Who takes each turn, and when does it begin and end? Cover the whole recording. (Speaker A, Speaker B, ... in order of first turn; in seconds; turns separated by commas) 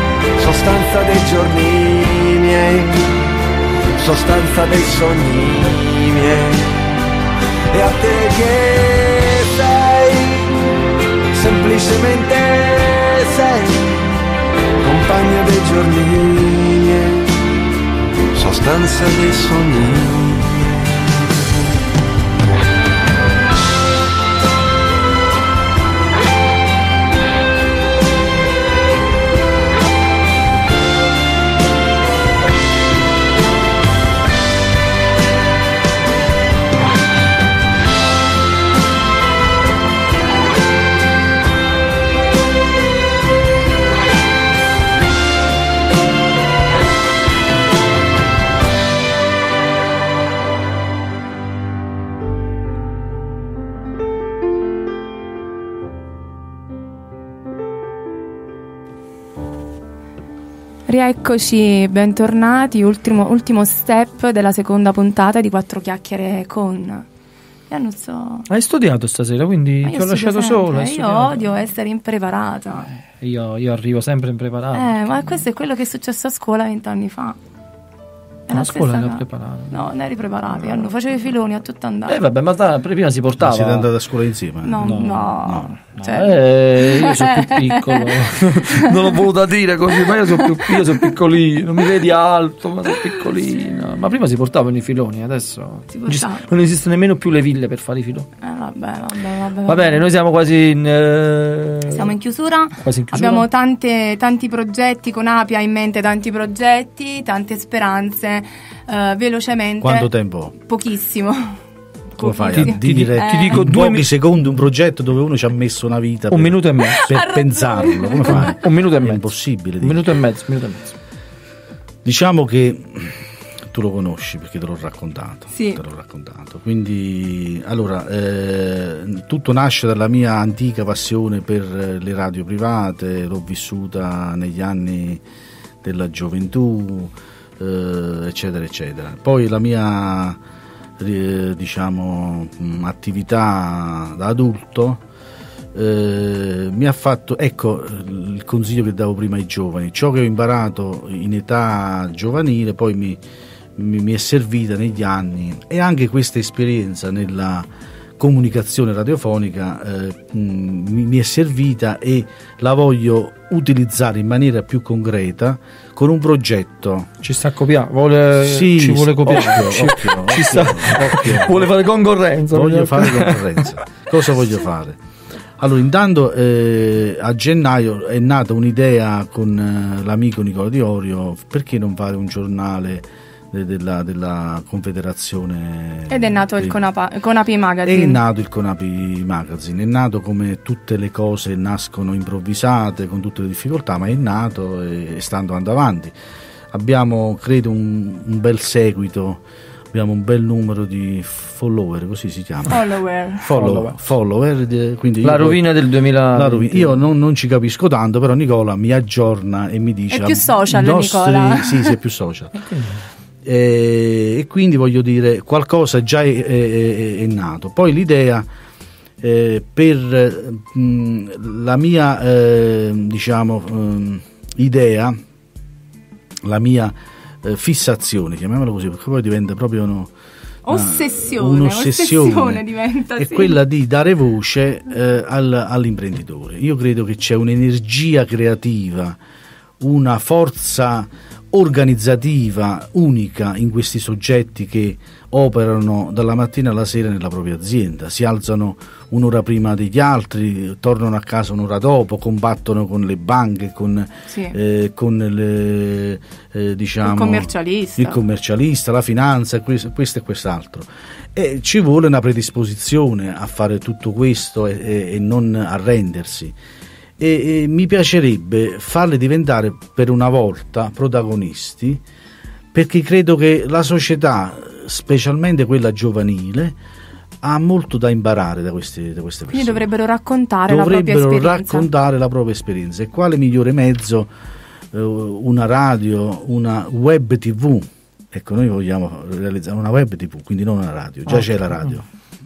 Speaker A: 0.4-3.1, Speaker A: 4.0-6.8, Speaker A: 7.7-10.5, Speaker A: 11.3-13.9, Speaker A: 14.8-17.2, Speaker A: 18.3-21.0, Speaker B: 60.9-67.1, Speaker B: 67.7-68.5, Speaker C: 68.5-71.5, Speaker B: 69.8-72.9, Speaker C: 73.2-75.0, Speaker B: 74.7-77.4, Speaker B: 78.5-82.2, Speaker C: 78.5-79.8, Speaker C: 80.6-80.9, Speaker C: 82.1-83.9, Speaker D: 83.4-85.7, Speaker B: 84.6-89.1, Speaker C: 84.8-85.4, Speaker C: 86.0-98.3, Speaker B: 89.9-91.1, Speaker B: 92.9-93.2, Speaker B: 95.9-96.5, Speaker B: 98.4-100.1, Speaker C: 99.7-102.2, Speaker B: 101.9-111.6, Speaker C: 102.8-103.5, Speaker D: 109.8-110.5, Speaker B: 112.2-113.7, Speaker D: 112.2-120.0, Speaker C: 112.5-114.1, Speaker C: 116.3-117.2, Speaker B: 116.8-118.7, Speaker C: 118.3-120.9, Speaker D: 122.0-123.1, Speaker D: 123.7-135.2, Speaker B: 125.5-125.8, Speaker D: 135.8-140.4, Speaker D: 141.0-145.0, Speaker D: 145.7-153.2, Speaker D: 153.8-157.7, Speaker D: 158.2-167.1, Speaker C: 167.2-173.5, Speaker D: 168.3-171.7, Speaker D: 172.5-175.0, Speaker D: 175.6-186.8, Speaker B: 186.1-188.2, Speaker D: 187.9-196.2, Speaker D: 196.7-202.9, Speaker B: 202.7-203.5, Speaker D: 203.4-212.6, Speaker C: 203.5-204.0, Speaker C: 205.2-207.0, Speaker B: 210.1-211.9, Speaker C: 212.6-213.0, Speaker D: 213.4-218.5, Speaker D: 219.2-225.2, Speaker D: 226.4-230.1, Speaker B: 230.7-233.6, Speaker D: 230.7-232.7, Speaker D: 233.2-239.2, Speaker D: 239.8-266.6, Speaker B: 254.3-254.6, Speaker B: 257.0-258.2, Speaker D: 267.2-272.0, Speaker D: 272.7-276.8, Speaker D: 277.4-279.9, Speaker B: 279.5-281.9, Speaker D: 280.7-284.3, Speaker D: 284.9-292.1